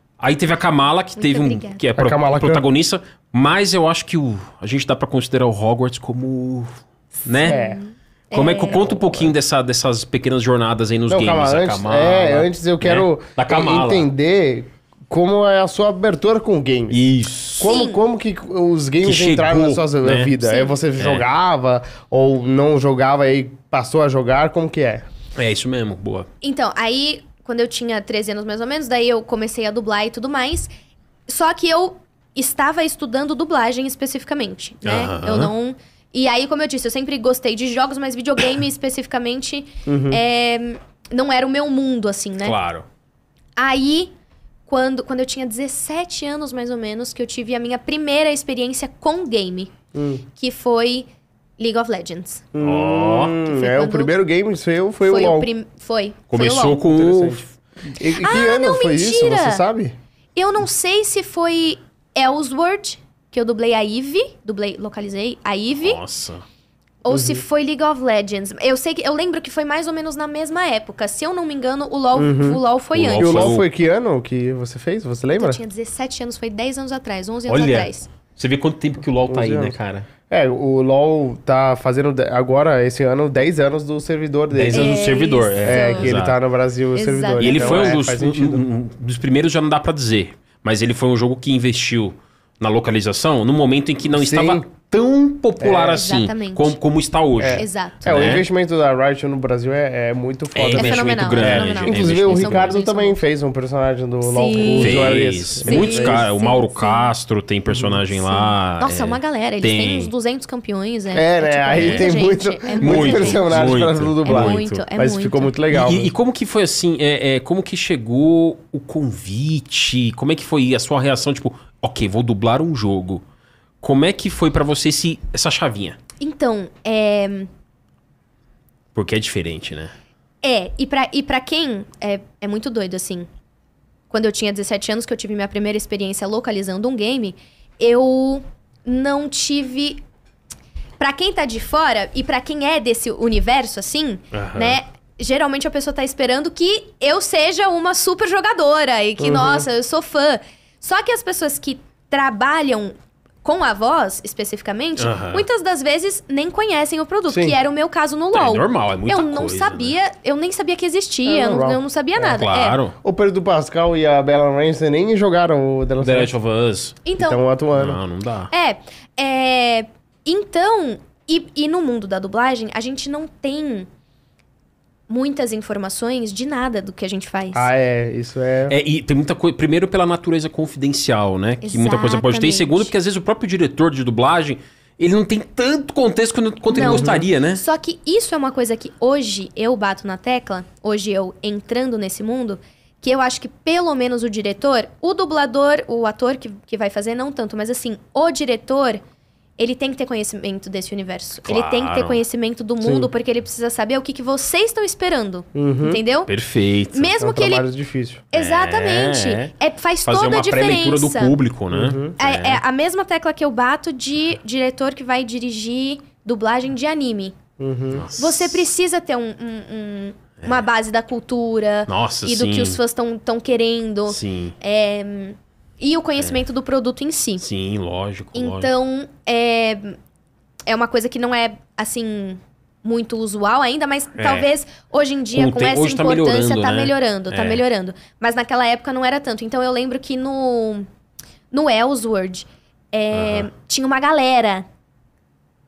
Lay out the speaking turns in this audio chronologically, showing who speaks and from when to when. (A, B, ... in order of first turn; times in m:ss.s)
0:00.2-0:07.6 A
0:01.2-0:01.8 B
0:02.0-0:02.6 C
0:07.4-0:07.8 C
0:07.4-0:09.0 B
0:08.3-0:14.1 A
0:11.1-0:17.0 C
0:16.9-0:17.8 A
0:17.6-0:25.0 C
0:17.6-0:18.0 B
0:19.0-0:20.4 A
0:20.4-0:20.8 B
0:21.0-0:21.2 A
0:25.4-0:26.3 A
0:26.4-0:30.7 B
0:31.3-0:42.5 B
0:34.8-0:35.5 A
0:39.9-0:40.2 C
0:42.4-0:42.9 A
0:43.6-0:44.1 B
0:44.7-0:49.7 B
0:49.9-0:50.2 C
0:50.4-0:51.1 B
0:51.6-0:52.4 B
0:52.5-0:55.5 C
0:52.6-0:53.4 A
0:53.4-0:54.1 B
0:55.0-0:56.8 B
0:56.3-0:57.4 A
0:56.8-0:59.9 C
0:58.0-0:59.6 B
1:00.4-1:06.0 B
1:05.8-1:06.4 A
1:07.0-1:13.6 B
1:07.1-1:07.4 C
1:12.1-1:12.6 C
1:12.9-1:13.6 A
1:13.1-1:15.6 C
1:15.4-1:18.1 B
1:17.5-1:20.1 A
1:19.3-1:19.7 C
1:20.3-1:25.0 C
1:24.5-1:26.4 A
1:24.7-1:26.1 B
1:25.6-1:28.6 C
1:26.9-1:28.0 B
1:27.4-1:38.4 A
1:34.1-1:34.6 C
1:35.6-1:36.1 C
1:35.9-1:36.8 B
1:37.4-1:46.2 C
1:37.6-1:38.3 B
1:40.5-1:42.8 A
1:40.7-1:43.2 B
1:44.2-1:47.1 B
1:44.6-1:50.1 A
1:47.7-1:48.0 C
1:48.1-1:53.7 B
1:51.1-1:56.1 C
1:51.8-1:52.1 A
1:52.8-1:54.8 A
1:54.2-1:55.5 B
1:55.7-2:03.2 A
2:03.8-2:06.0 A
2:06.2-2:07.5 B
2:08.9-2:09.9 A
2:10.4-2:13.3 B
2:14.1-2:20.0 B
2:21.0-2:42.8 B
2:24.3-2:24.8 A
2:29.2-2:29.6 C
2:35.0-2:35.4 A
2:37.3-2:37.5 C
2:38.3-2:40.0 A
2:41.2-2:41.8 C
2:42.2-2:43.0 A
2:43.0-2:46.3 C
2:46.0-2:47.0 A
2:47.0-2:47.4 B
2:47.2-2:48.0 C
2:47.7-2:48.5 A
2:48.5-2:53.9 B
2:55.1-2:57.7 B
2:57.5-2:58.7 C
2:58.7-3:07.6 A
3:01.6-3:02.9 B
3:06.7-3:19.0 B
3:06.7-3:07.3 C
3:19.6-3:26.3 B
3:21.5-3:22.2 A
3:22.8-3:23.1 C
3:25.5-3:26.0 C
3:26.3-3:27.2 A
3:26.9-3:27.7 B
3:27.2-3:28.2 C
3:28.3-3:31.4 B
3:28.3-3:29.5 A
3:30.0-3:32.6 A
3:31.7-3:32.1 C
3:32.2-3:37.4 B
3:37.6-3:38.1 C
3:37.9-3:38.7 A
3:38.2-3:47.4 B
3:41.9-3:42.8 A
3:44.1-3:44.6 A
3:47.4-3:48.7 A
3:48.4-3:50.0 B
3:50.7-4:00.9 B
3:54.2-3:54.5 A
3:55.3-3:57.6 A
4:01.5-4:04.6 B
4:03.1-4:03.5 A